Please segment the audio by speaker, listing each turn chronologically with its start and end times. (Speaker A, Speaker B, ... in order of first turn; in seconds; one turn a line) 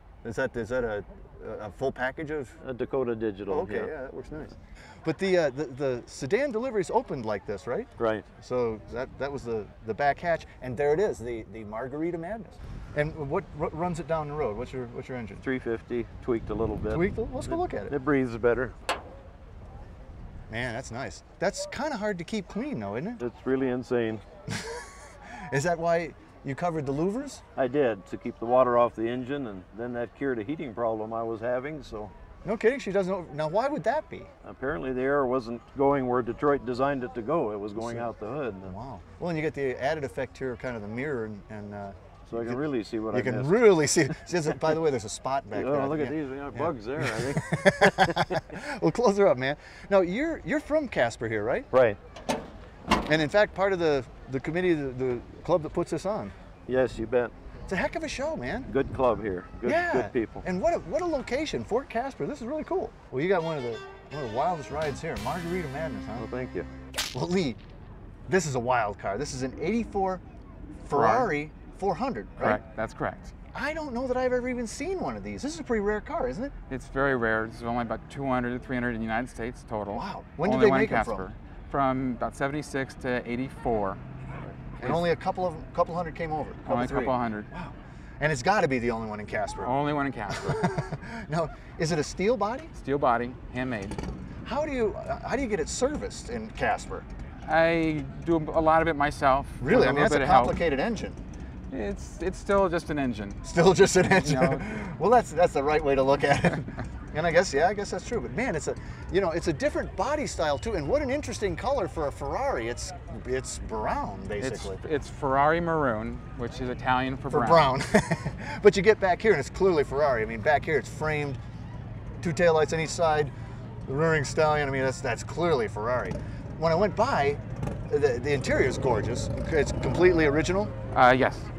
Speaker A: 0.2-2.6
Speaker B: 2.6-3.9
Speaker A: 3.5-15.4
Speaker B: 8.0-8.3
Speaker B: 15.4-18.8
Speaker A: 16.9-17.9
Speaker A: 20.5-23.2
Speaker B: 23.2-24.2
Speaker A: 24.5-27.4
Speaker B: 27.6-32.1
Speaker A: 32.5-34.3
Speaker B: 34.4-38.8
Speaker A: 37.8-38.1
Speaker A: 38.6-51.7
Speaker B: 42.3-44.7
Speaker B: 45.5-48.4
Speaker B: 51.7-52.0
Speaker A: 53.0-56.4
Speaker B: 56.7-57.3
Speaker A: 57.7-58.7
Speaker B: 58.7-60.5
Speaker A: 59.6-66.3
Speaker B: 66.2-66.7
Speaker A: 67.1-67.6
Speaker A: 68.3-70.2
Speaker A: 70.9-72.6
Speaker C: 70.9-71.3
Speaker C: 72.4-73.3
Speaker A: 73.5-76.5
Speaker C: 76.7-84.0
Speaker A: 79.9-81.3
Speaker A: 84.8-89.8
Speaker C: 86.7-87.5
Speaker C: 89.6-90.5
Speaker A: 90.3-92.7
Speaker C: 92.8-94.0
Speaker A: 94.5-97.1
Speaker C: 97.5-100.5
Speaker A: 99.6-101.2
Speaker C: 101.7-103.4
Speaker A: 103.4-114.8
Speaker C: 114.4-117.6
Speaker A: 117.3-121.4
Speaker A: 122.2-123.3
Speaker A: 123.9-130.7
Speaker C: 130.9-131.5